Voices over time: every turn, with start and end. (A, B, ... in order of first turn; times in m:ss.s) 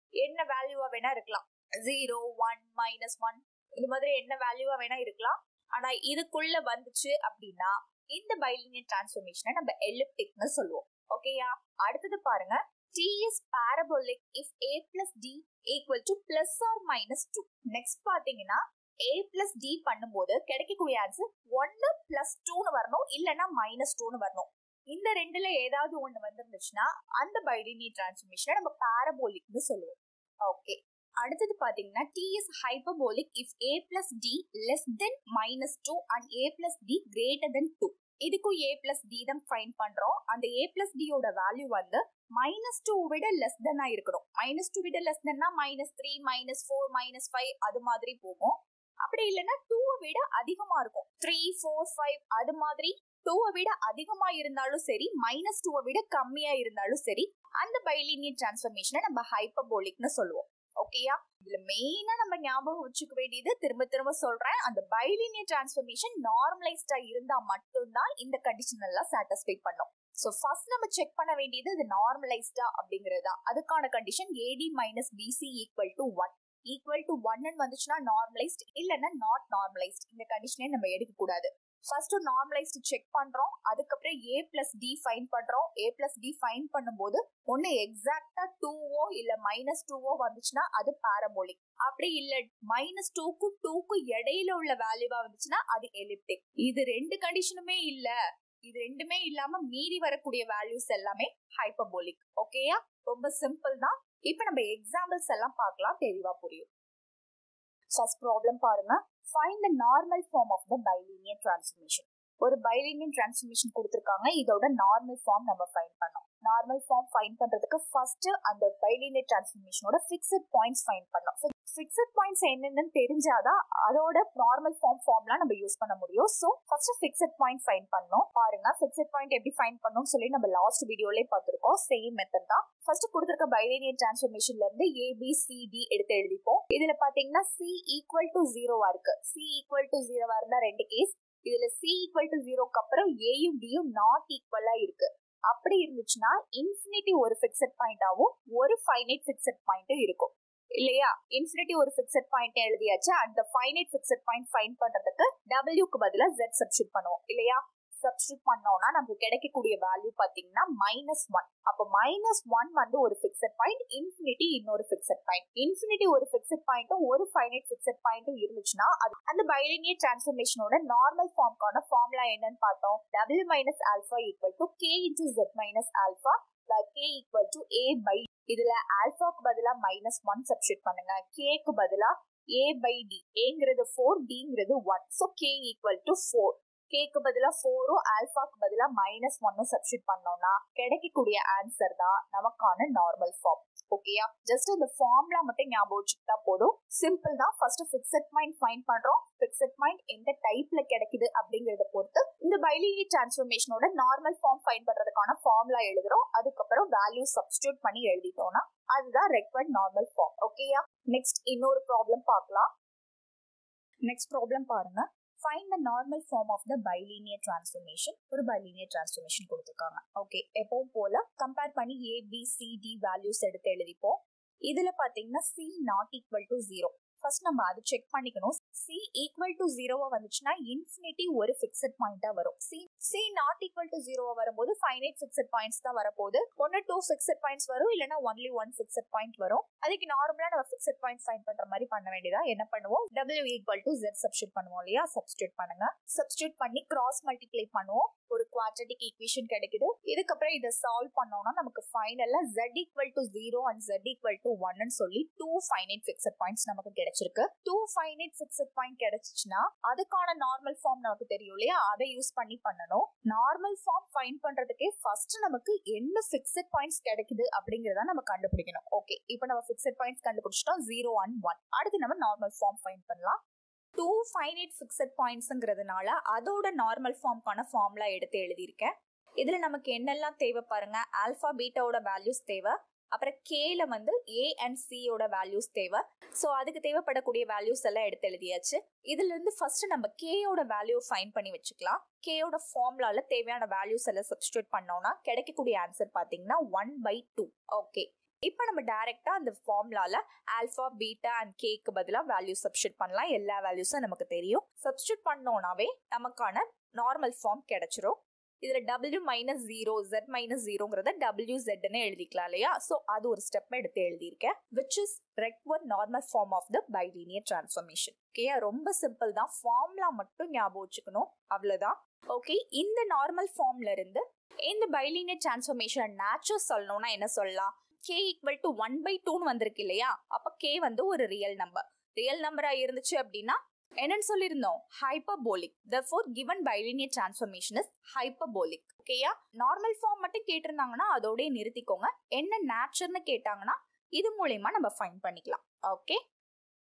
0:00.2-1:38.1 A
1:38.7-1:46.7 A
1:48.0-3:32.7 A
3:34.0-3:44.1 A
3:44.7-4:33.4 A
4:34.0-5:46.2 A